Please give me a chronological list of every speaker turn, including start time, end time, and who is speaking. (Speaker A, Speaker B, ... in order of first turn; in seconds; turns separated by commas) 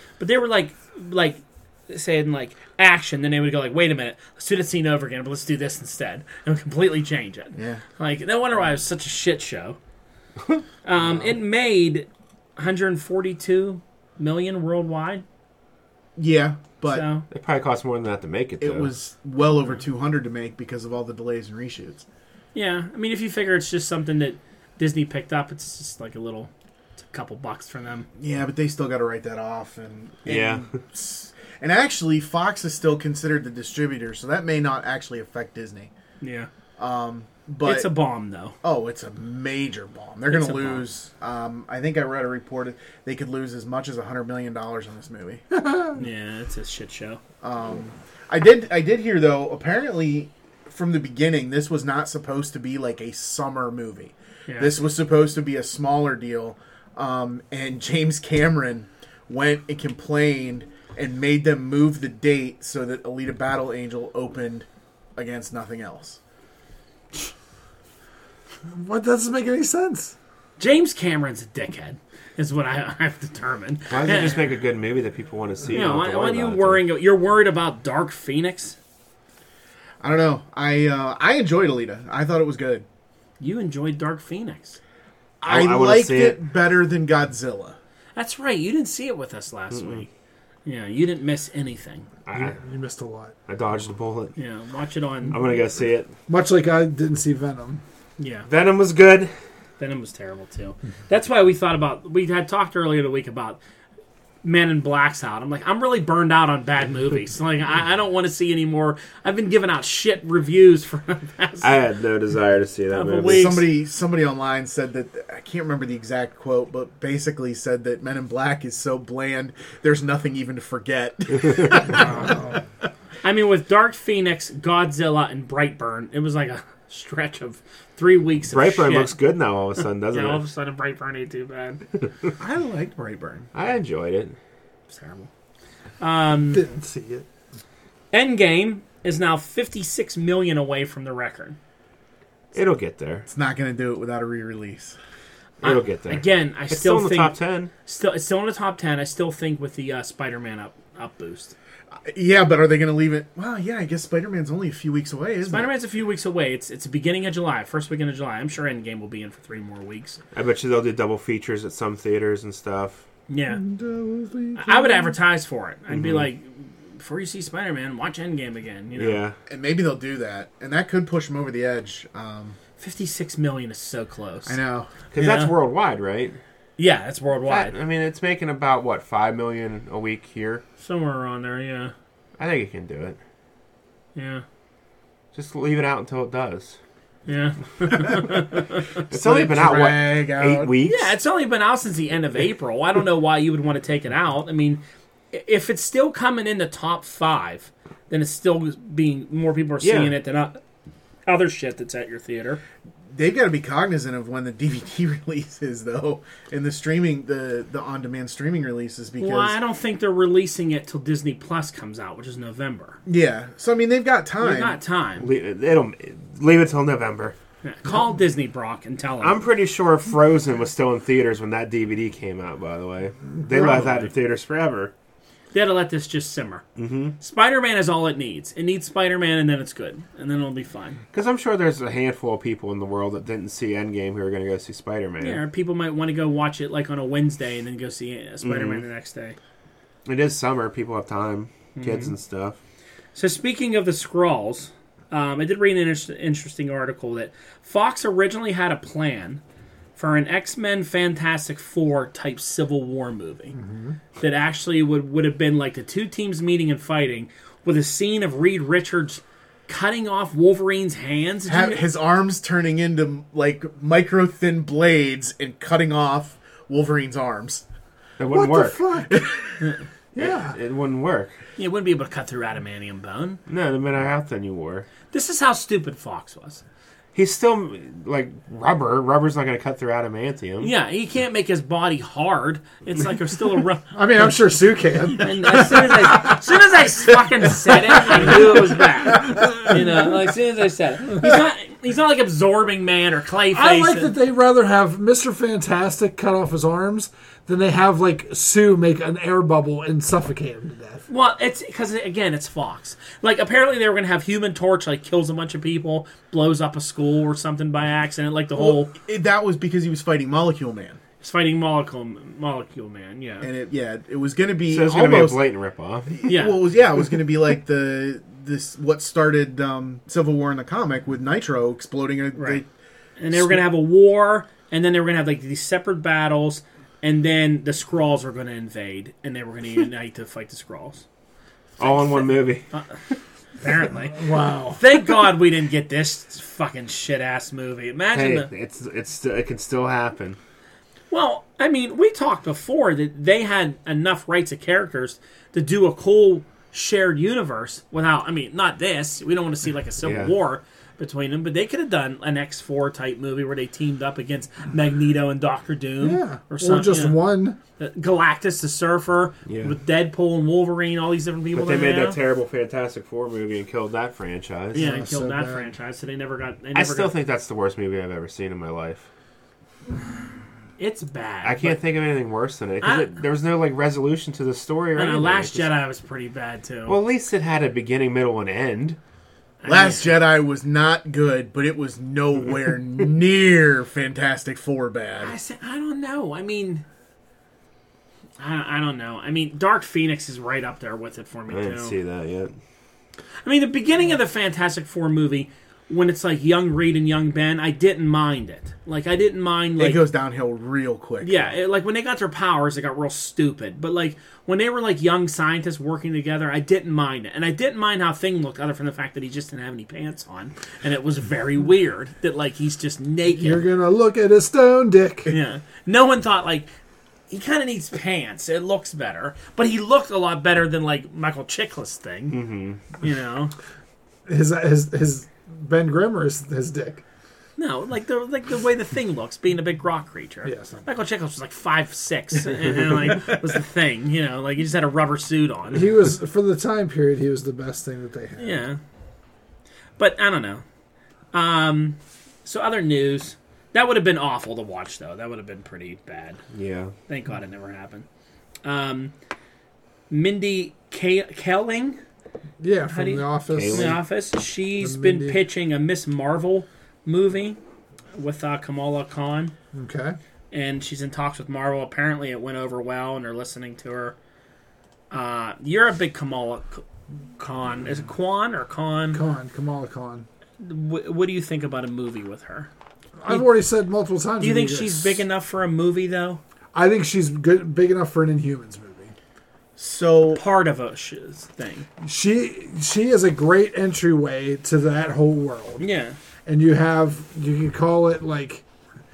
Speaker A: 0.2-9.8, Speaker B: 7.6-7.8, Speaker A: 10.8-15.2, Speaker B: 16.2-17.1, Speaker A: 16.9-17.3, Speaker C: 17.3-18.9, Speaker B: 18.6-22.1, Speaker A: 22.5-26.5, Speaker A: 27.0-28.1, Speaker B: 28.2-35.9, Speaker C: 30.3-30.7, Speaker A: 36.2-36.5, Speaker B: 36.8-37.9, Speaker A: 37.6-38.6, Speaker B: 38.6-45.5, Speaker A: 40.3-40.9, Speaker D: 45.6-45.9, Speaker A: 46.0-47.2, Speaker B: 47.4-66.2, Speaker A: 54.5-54.8, Speaker D: 68.7-70.1, Speaker A: 70.6-74.5, Speaker C: 73.9-76.8, Speaker A: 75.7-78.8, Speaker B: 80.0-82.8, Speaker A: 83.4-84.8, Speaker B: 85.4-87.8, Speaker C: 85.4-86.4, Speaker A: 88.2-90.1, Speaker C: 89.7-90.1, Speaker A: 90.7-92.1, Speaker C: 92.3-92.6, Speaker D: 92.3-93.3, Speaker C: 93.5-94.3, Speaker A: 94.4-95.3, Speaker C: 95.3-96.1, Speaker D: 96.3-97.8, Speaker A: 98.2-98.5, Speaker C: 98.5-99.3, Speaker A: 99.8-103.6, Speaker A: 104.4-111.7, Speaker C: 111.6-113.7, Speaker A: 112.9-113.7, Speaker B: 113.2-122.4, Speaker C: 121.5-121.8, Speaker D: 122.2-122.6, Speaker A: 123.2-129.1, Speaker C: 128.5-130.4, Speaker A: 130.1-131.8, Speaker B: 132.4-133.5, Speaker C: 133.5-134.4, Speaker A: 134.9-135.3, Speaker A: 136.0-136.6, Speaker D: 136.5-137.3, Speaker A: 138.1-141.6, Speaker C: 142.5-143.3, Speaker B: 143.3-145.0, Speaker C: 145.6-147.7, Speaker A: 145.6-151.6, Speaker B: 152.1-155.7, Speaker A: 155.5-160.2, Speaker C: 160.3-163.0, Speaker A: 163.3-163.6, Speaker D: 163.5-165.2, Speaker A: 164.6-169.2, Speaker C: 165.9-166.3, Speaker C: 169.0-169.4, Speaker B: 169.5-172.6, Speaker A: 172.8-174.6, Speaker B: 174.5-174.9, Speaker C: 175.1-176.4, Speaker A: 175.2-175.5, Speaker A: 176.8-177.7, Speaker C: 177.5-180.6, Speaker A: 180.8-181.9, Speaker C: 182.4-183.2, Speaker A: 184.2-184.4, Speaker C: 185.3-186.8, Speaker A: 187.3-188.9, Speaker C: 189.1-191.1, Speaker B: 189.1-190.7, Speaker A: 190.8-200.6, Speaker C: 199.8-200.1, Speaker A: 201.3-202.6, Speaker B: 203.1-209.6, Speaker A: 209.2-213.0, Speaker B: 213.1-214.8, Speaker A: 214.4-215.3, Speaker C: 215.2-217.4, Speaker A: 217.6-219.4, Speaker C: 219.2-224.9, Speaker A: 223.5-224.1, Speaker A: 225.5-226.6, Speaker C: 226.8-227.2, Speaker A: 227.2-231.0, Speaker C: 231.1-235.4, Speaker A: 235.2-239.4, Speaker C: 238.4-238.8, Speaker C: 240.1-242.6, Speaker A: 241.8-242.1, Speaker A: 243.2-249.4, Speaker A: 250.0-253.6, Speaker D: 253.6-254.0, Speaker A: 254.2-261.8, Speaker B: 261.5-267.6, Speaker C: 268.2-268.8, Speaker D: 268.3-269.2, Speaker B: 269.1-269.4, Speaker D: 270.1-270.6, Speaker C: 270.2-271.4, Speaker A: 271.6-273.4, Speaker C: 273.5-274.9, Speaker A: 275.1-276.6, Speaker C: 277.1-280.7, Speaker A: 280.6-283.9, Speaker D: 283.9-286.4, Speaker A: 285.2-294.1, Speaker D: 287.7-289.9, Speaker D: 293.5-301.1, Speaker A: 301.1-308.9, Speaker B: 308.6-311.0, Speaker A: 311.2-313.5, Speaker B: 313.4-315.4, Speaker C: 314.7-316.3, Speaker B: 316.2-322.7, Speaker A: 316.3-316.6, Speaker A: 322.4-322.6, Speaker A: 323.2-331.0, Speaker C: 331.8-332.7, Speaker A: 331.8-332.9, Speaker A: 333.6-338.5, Speaker D: 334.1-334.8, Speaker C: 338.1-340.4, Speaker A: 341.1-362.2, Speaker C: 350.0-350.4, Speaker D: 356.0-357.6, Speaker C: 359.5-359.8, Speaker C: 361.5-364.9, Speaker A: 364.7-367.1, Speaker D: 364.8-365.7, Speaker C: 366.8-369.1, Speaker A: 370.8-371.8, Speaker C: 371.4-375.7, Speaker A: 372.8-373.1, Speaker A: 375.0-377.0, Speaker C: 376.9-379.0, Speaker A: 379.6-380.2, Speaker B: 379.7-385.3, Speaker A: 385.2-386.8, Speaker A: 388.4-392.0, Speaker C: 391.5-392.5, Speaker A: 393.4-400.0, Speaker B: 399.8-401.5, Speaker A: 401.2-413.6, Speaker D: 413.3-415.3, Speaker A: 415.3-416.7, Speaker A: 417.3-422.4, Speaker C: 422.3-422.8, Speaker A: 423.0-423.5, Speaker D: 424.3-427.0, Speaker A: 427.6-435.9, Speaker D: 430.4-430.9, Speaker D: 435.7-438.6, Speaker A: 438.4-438.8, Speaker A: 440.0-440.6, Speaker A: 441.3-446.4, Speaker C: 446.5-446.9, Speaker A: 447.1-448.1, Speaker A: 448.6-449.1, Speaker A: 450.1-452.0, Speaker D: 452.6-454.0, Speaker A: 452.9-457.6, Speaker C: 453.5-454.0, Speaker D: 454.8-455.4, Speaker A: 458.1-459.5, Speaker D: 459.7-460.2, Speaker A: 460.5-464.2, Speaker A: 465.1-466.9, Speaker A: 467.4-469.2, Speaker D: 469.1-470.3, Speaker A: 470.6-472.7, Speaker D: 473.2-475.2, Speaker A: 474.4-476.4, Speaker D: 476.7-479.1, Speaker B: 479.8-480.4, Speaker A: 480.3-481.9, Speaker D: 482.0-485.8, Speaker A: 485.8-486.2, Speaker D: 486.5-488.6